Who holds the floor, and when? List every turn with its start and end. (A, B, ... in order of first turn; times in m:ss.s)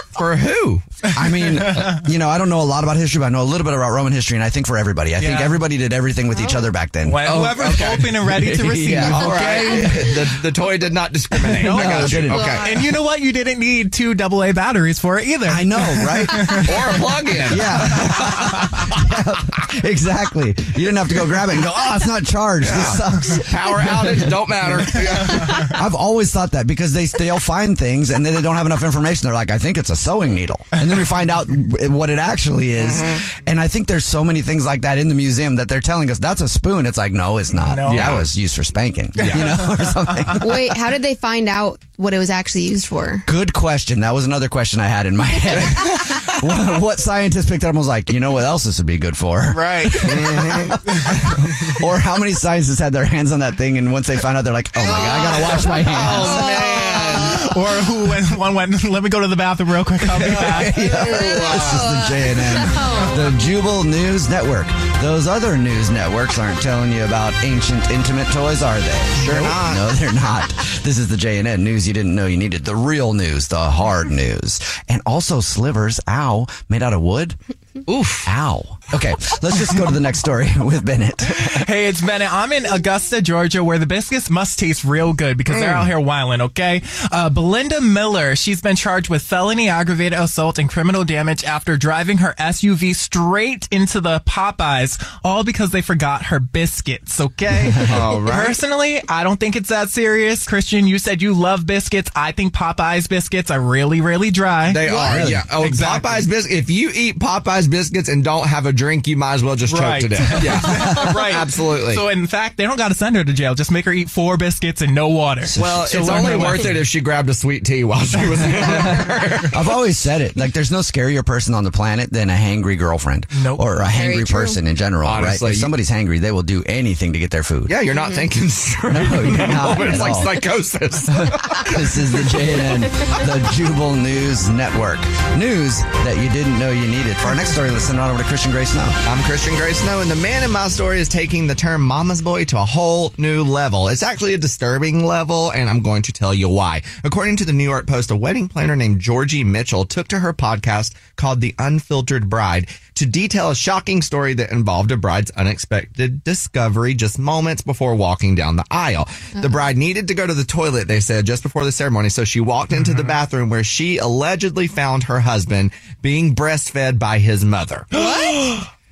0:00.2-0:01.0 A
0:01.1-0:10.3 B
0:01.6-0:02.0 C
0:05.2-0:05.6 C
0:06.4-0:06.6 D
0:07.0-0:10.2 C
0:07.2-0:08.2 A
0:09.0-0:12.8 A
0:11.5-0:12.7 B
0:11.5-0:17.1 C
0:15.5-0:16.7 B
0:16.6-0:18.8 A
0:17.5-0:24.3 B
0:22.6-0:25.7 A
0:24.9-0:40.8 B
0:32.8-0:33.2 A
0:37.6-0:38.2 C
0:37.8-0:38.3 A
0:39.2-0:39.5 A
0:39.2-0:40.4 C
0:40.4-0:43.3 D
0:43.2-0:56.5 B
0:49.5-0:50.3 C
0:50.0-0:50.7 A
0:50.9-0:51.2 C
0:54.8-0:57.4 A
0:54.8-1:01.8 C
0:56.4-0:57.1 D
1:00.1-1:17.4 B
1:00.9-1:03.3 D
1:01.2-1:01.6 A
1:09.2-1:09.9 A
1:17.9-1:18.3 A
1:18.2-1:21.7 B
1:21.4-1:46.3 C
1:25.5-1:25.9 A
1:37.8-1:38.6 A
1:44.7-1:52.0 A
1:45.1-1:45.5 B
1:49.7-1:56.9 C
1:50.7-1:51.2 B
1:55.6-1:59.6 A
1:58.1-1:59.1 C
1:58.6-1:59.0 B
1:59.5-2:07.8 B
2:03.3-2:03.8 C
2:03.8-2:04.6 D
2:05.0-2:05.7 A
2:07.7-2:11.9 A
2:07.9-2:08.3 D
2:08.9-2:10.5 B
2:11.1-2:19.0 B
2:19.1-2:48.3 A
2:47.9-2:48.5 D